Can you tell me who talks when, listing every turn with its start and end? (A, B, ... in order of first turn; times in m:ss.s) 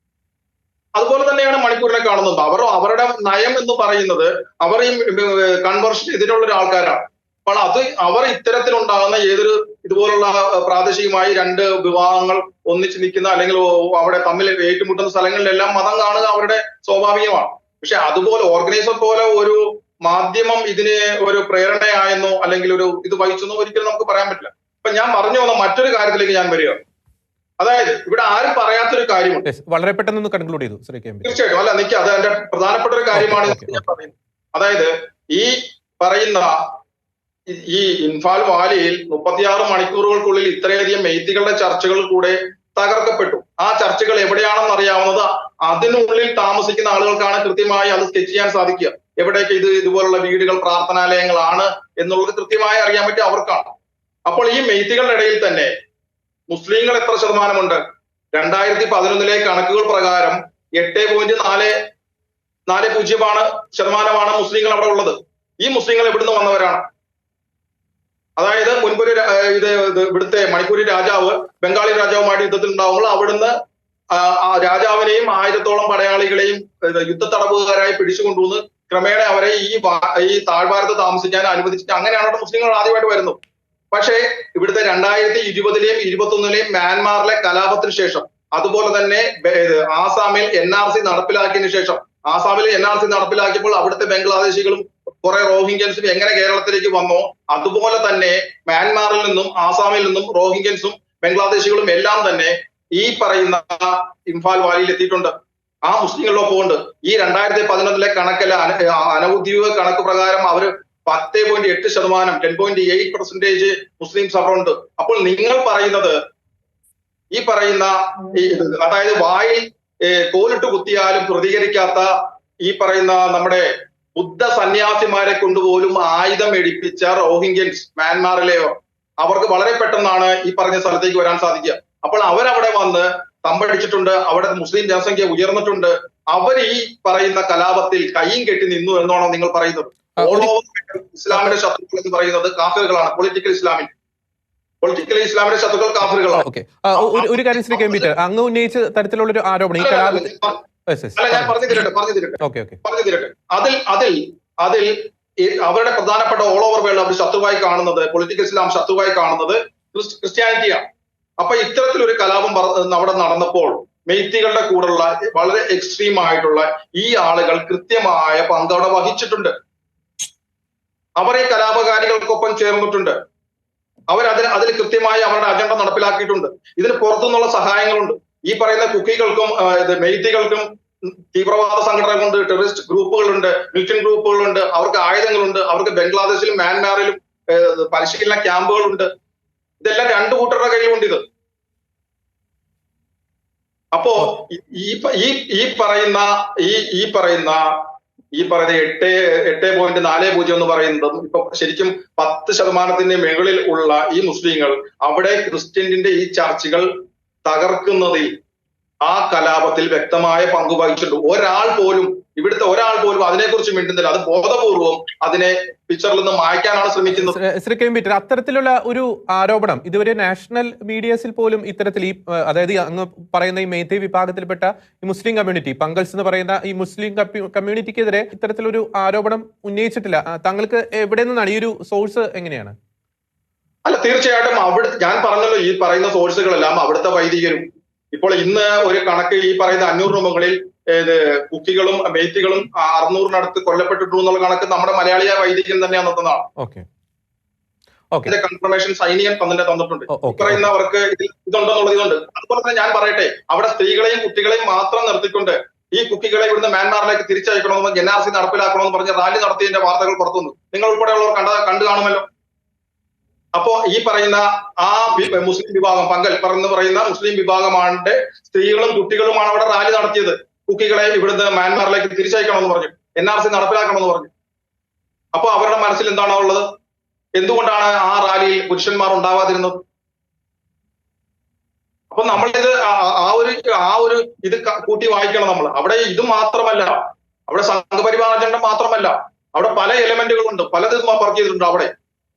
0:00.9-0:26.8 A
0:27.6-0:29.4 A
0:29.4-0:31.4 B
0:31.2-0:36.6 A
0:33.1-0:33.8 B
0:37.5-0:53.7 A
0:54.2-0:55.7 A
0:56.5-0:57.8 A
0:58.3-1:01.7 A
1:02.7-1:06.8 A
1:08.4-1:13.5 A
1:14.1-1:23.4 A
1:23.9-1:45.3 A
1:45.8-1:56.2 A
1:57.3-2:02.1 A
2:02.6-2:23.9 A
2:20.2-2:20.5 B
2:24.8-2:26.4 A
2:26.3-2:30.3 B
2:27.0-2:28.1 A
2:29.8-2:30.6 A
2:30.9-2:31.7 B
2:31.2-2:40.8 A
2:32.4-2:32.8 B
2:41.4-2:49.5 A
2:51.2-2:53.2 A
2:54.1-3:09.1 A
3:09.8-3:11.2 A
3:13.9-3:17.7 A
3:18.3-3:26.9 A
3:27.4-3:28.3 A
3:29.0-3:37.4 A
3:37.1-3:52.7 B
3:53.8-4:06.5 A
4:06.6-4:06.8 B
4:08.2-4:22.2 A
4:10.1-4:10.7 B
4:23.5-4:34.3 A
4:35.3-4:36.6 A
4:37.4-4:39.8 A
4:42.1-4:51.9 A